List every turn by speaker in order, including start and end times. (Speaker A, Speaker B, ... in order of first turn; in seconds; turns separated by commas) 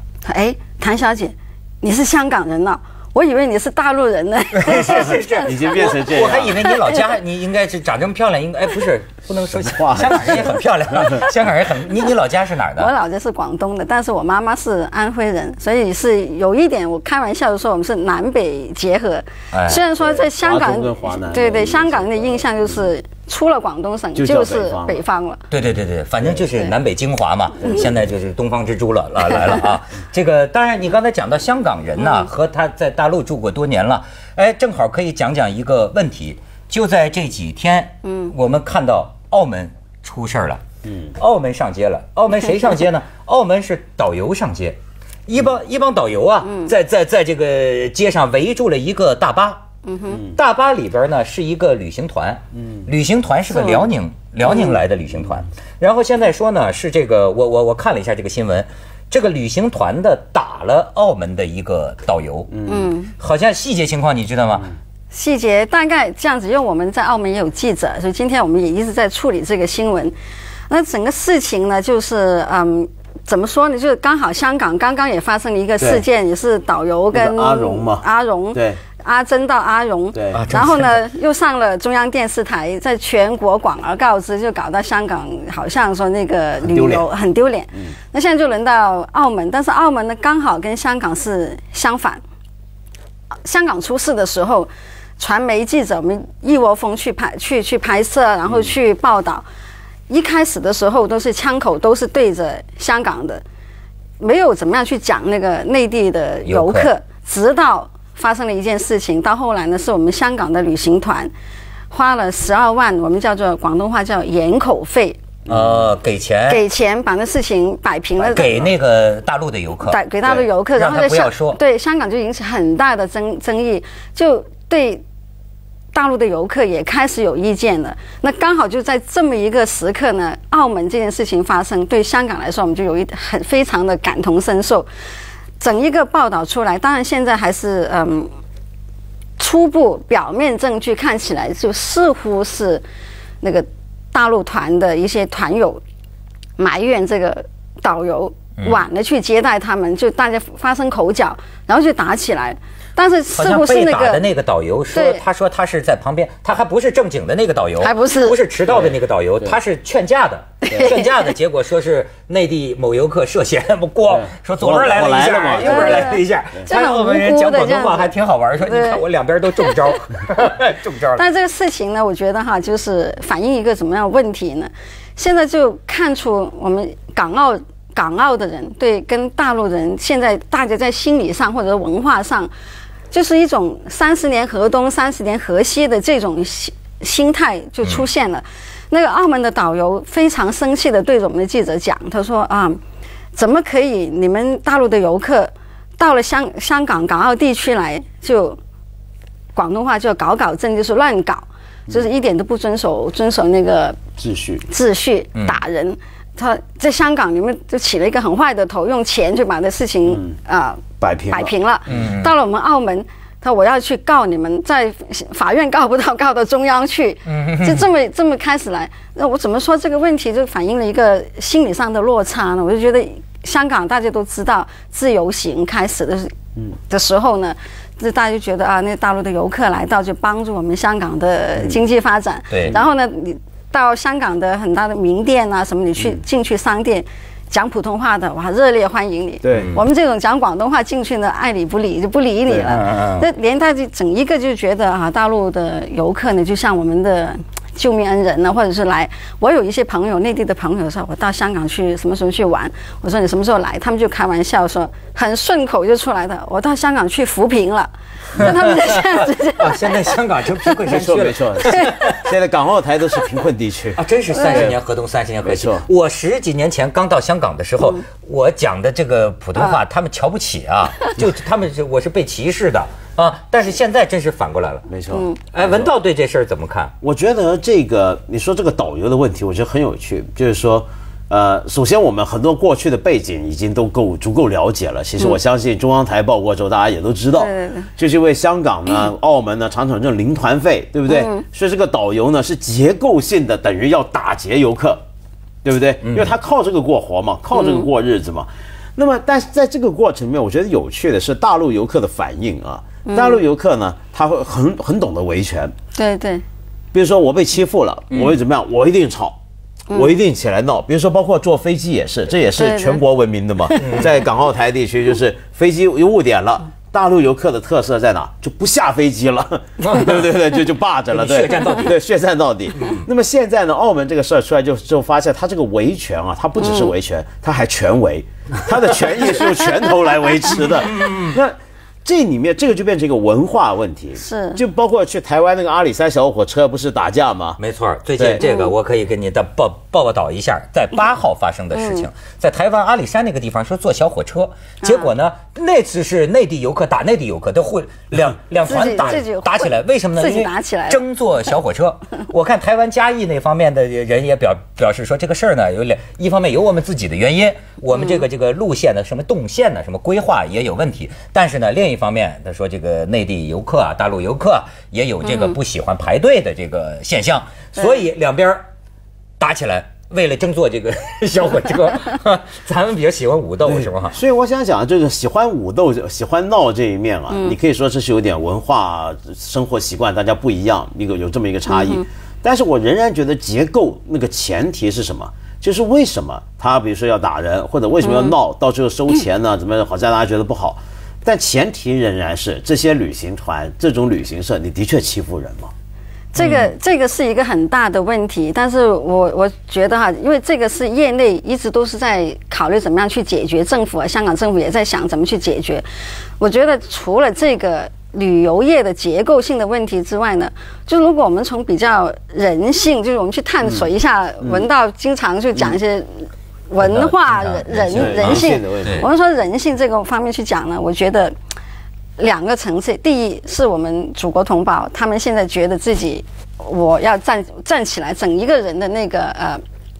Speaker A: 0.2-5.8, Speaker B: 4.5-12.9, Speaker C: 5.4-6.7, Speaker A: 6.6-7.0, Speaker C: 9.6-10.5, Speaker A: 12.8-25.4, Speaker B: 19.5-19.8, Speaker C: 19.9-22.5, Speaker C: 24.1-25.0, Speaker B: 25.5-40.6, Speaker C: 27.6-27.9, Speaker A: 32.0-32.3, Speaker A: 38.0-38.3, Speaker C: 40.8-41.1, Speaker B: 41.1-62.5, Speaker A: 46.4-46.7, Speaker A: 49.9-50.2, Speaker A: 53.5-53.9, Speaker A: 54.4-54.8, Speaker C: 62.5-62.8, Speaker A: 62.7-63.1, Speaker B: 63.2-64.7, Speaker A: 65.1-70.1, Speaker A: 70.7-92.2, Speaker C: 77.1-78.8, Speaker C: 80.1-80.4, Speaker B: 80.3-81.0, Speaker C: 86.6-87.0, Speaker A: 93.4-99.4, Speaker A: 100.1-103.4, Speaker A: 104.2-111.3, Speaker B: 106.5-106.9, Speaker A: 111.9-115.2, Speaker C: 115.5-115.8, Speaker B: 115.5-116.6, Speaker A: 116.5-118.6, Speaker C: 118.2-118.7, Speaker B: 118.3-120.0, Speaker A: 119.9-125.0, Speaker B: 120.7-121.6, Speaker A: 125.9-134.9, Speaker A: 135.6-138.3, Speaker A: 139.4-142.8, Speaker A: 143.4-145.8, Speaker A: 146.6-154.2, Speaker B: 148.6-148.8, Speaker B: 153.3-171.2, Speaker A: 154.9-155.2, Speaker A: 157.8-158.4, Speaker C: 158.7-159.6, Speaker A: 160.7-161.1, Speaker C: 164.1-165.8, Speaker A: 165.5-169.0, Speaker A: 171.2-182.5, Speaker A: 183.1-192.8, Speaker A: 193.3-198.6, Speaker A: 199.5-204.0, Speaker C: 204.2-204.6, Speaker A: 204.7-226.3, Speaker C: 210.1-210.3, Speaker C: 211.0-211.5, Speaker B: 211.9-212.3, Speaker B: 217.2-217.8, Speaker A: 226.9-260.1, Speaker B: 232.5-232.8, Speaker C: 239.4-239.7, Speaker C: 242.5-242.7, Speaker B: 242.7-243.3, Speaker B: 259.5-262.2, Speaker A: 260.6-260.9, Speaker C: 260.9-264.8, Speaker A: 261.6-262.1, Speaker B: 263.9-274.9, Speaker A: 264.3-264.6, Speaker C: 265.4-265.9, Speaker C: 274.9-275.9, Speaker A: 275.1-275.4, Speaker B: 275.5-276.9, Speaker C: 277.0-295.0, Speaker A: 287.4-287.9, Speaker A: 291.1-291.4, Speaker C: 295.6-305.7, Speaker B: 296.0-296.4, Speaker A: 297.5-297.9, Speaker A: 303.1-303.4, Speaker A: 305.9-306.4, Speaker C: 306.9-309.4, Speaker C: 309.9-337.6, Speaker A: 312.6-313.0, Speaker B: 313.7-314.1, Speaker B: 319.8-320.3, Speaker B: 321.1-321.9, Speaker B: 322.8-323.0, Speaker A: 326.6-326.9, Speaker B: 330.7-331.4, Speaker A: 334.2-334.6, Speaker B: 337.6-368.6, Speaker C: 338.2-338.4, Speaker A: 338.4-338.7, Speaker A: 341.7-342.1, Speaker A: 344.8-345.1, Speaker A: 348.6-351.0, Speaker A: 357.9-358.2, Speaker A: 365.2-365.6, Speaker B: 369.4-374.2, Speaker C: 373.6-395.7, Speaker A: 381.7-382.0, Speaker A: 388.0-388.3, Speaker A: 396.3-405.8, Speaker B: 396.4-396.7, Speaker A: 406.4-421.3, Speaker C: 414.4-414.7, Speaker B: 416.8-419.0, Speaker C: 417.9-419.1, Speaker A: 422.2-429.6